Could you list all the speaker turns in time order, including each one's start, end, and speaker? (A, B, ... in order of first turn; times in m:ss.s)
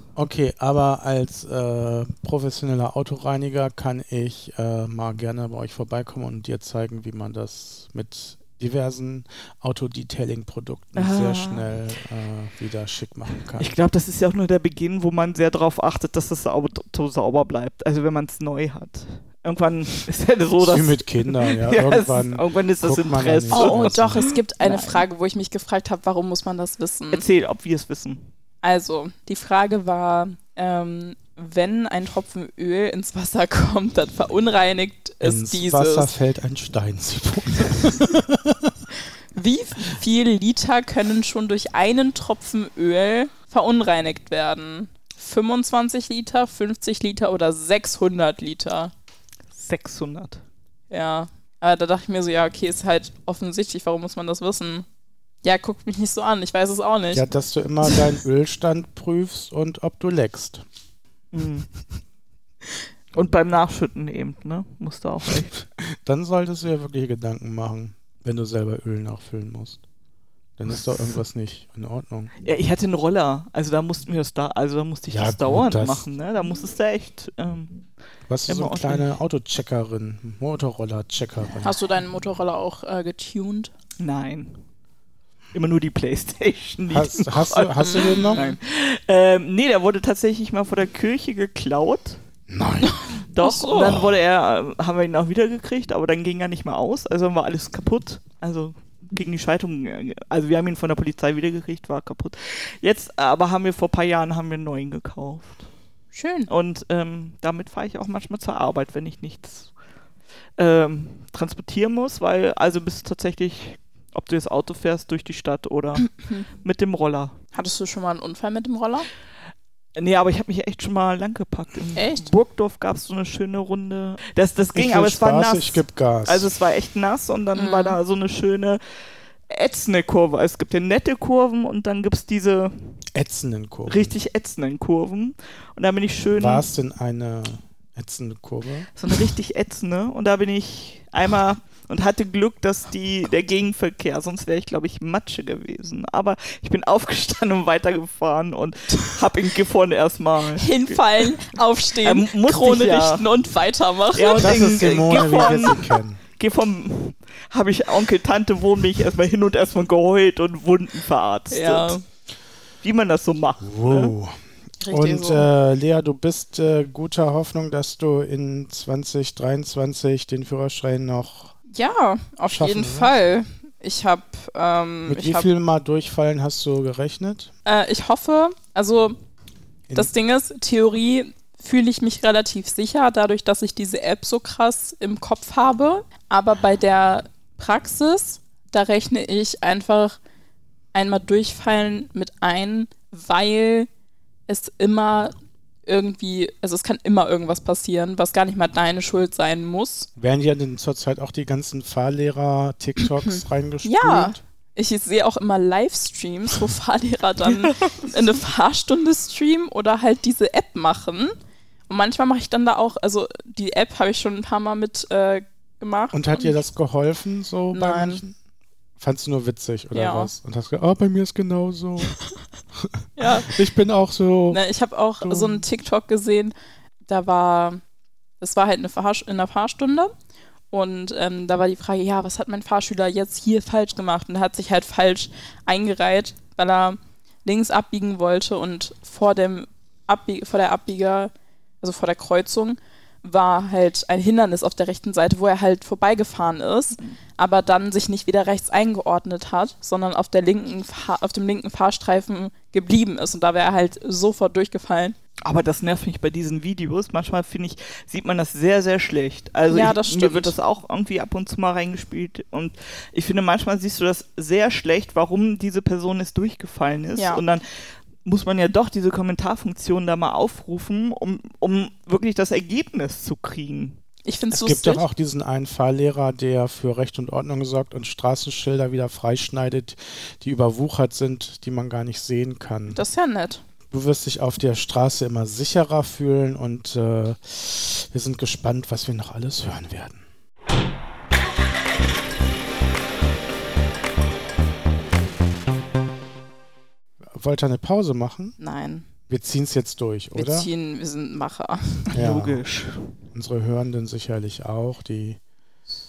0:00.2-0:13.7 A
0:11.0-0:11.7 B
0:13.6-0:25.0 B
0:20.6-0:24.3 A
0:23.5-0:27.2 C
0:27.1-0:28.2 B
0:28.6-0:36.1 C
0:35.2-0:38.8 A
0:39.4-0:48.9 C
0:49.5-0:50.4 B
0:50.9-0:54.9 C
0:55.4-0:57.3 C
0:57.1-1:00.6 A
1:01.3-1:01.7 B
1:03.1-1:05.6 B
1:05.8-1:09.8 A
1:10.6-1:12.3 A
1:12.4-1:17.9 B
1:15.1-1:16.0 A
1:18.3-1:21.8 A
1:18.5-1:19.1 B
1:21.6-1:23.7 C
1:24.0-1:24.6 B
1:25.5-1:32.2 B
1:26.9-1:28.4 A
1:27.8-1:28.6 C
1:32.5-1:33.0 A
1:32.8-1:34.0 C
1:33.3-1:45.6 B
1:33.8-1:34.2 A
1:46.1-1:46.5 C
1:46.5-1:49.7 B
1:50.6-1:57.4 B
1:57.5-1:59.1 C
2:00.0-2:08.8 B
2:02.0-2:02.3 C
2:04.8-2:06.5 A
2:07.5-2:08.0 C
2:09.5-2:13.0 B
2:13.1-2:14.1 A
2:13.9-2:16.6 B
2:16.4-2:18.9 A
2:19.0-2:31.4 B
2:30.5-2:35.8 C
2:32.0-2:33.3 B
2:34.1-2:42.0 B
2:34.4-2:36.2 A
2:41.5-2:42.0 C
2:42.8-2:44.1 B
2:43.6-2:44.3 A
2:44.8-2:45.5 C
2:44.9-2:51.5 A
2:51.7-2:55.5 C
2:52.5-2:53.1 A
2:55.1-2:57.5 A
2:57.6-2:59.2 C
2:59.9-3:10.2 C
3:10.9-3:13.9 C
3:14.5-3:15.3 C
3:15.9-3:20.1 C
3:20.2-3:24.4 A
3:23.2-3:31.3 C
3:27.5-3:28.1 B
3:31.9-3:36.6 C
3:36.1-3:38.4 A
3:37.7-3:38.2 C
3:39.0-3:42.2 A
3:39.9-3:40.3 C
3:42.8-3:44.6 A
3:43.2-3:43.6 C
3:44.5-3:46.5 C
3:45.2-3:45.6 A
3:47.1-3:47.8 C
3:48.4-3:50.1 C
3:50.7-4:15.2 C
4:15.4-4:27.6 B
4:19.7-4:20.5 C
4:27.2-4:27.4 C
4:28.2-4:34.0 B
4:34.2-4:35.0 C
4:34.5-4:43.0 A
4:42.9-4:43.6 C
4:43.9-4:50.2 A
4:57.3-4:58.6 A
4:58.6-4:59.0 C
4:59.3-5:00.7 A
5:00.4-5:02.1 C
5:02.1-5:03.2 B
5:02.1-5:02.6 A
5:03.3-5:05.4 A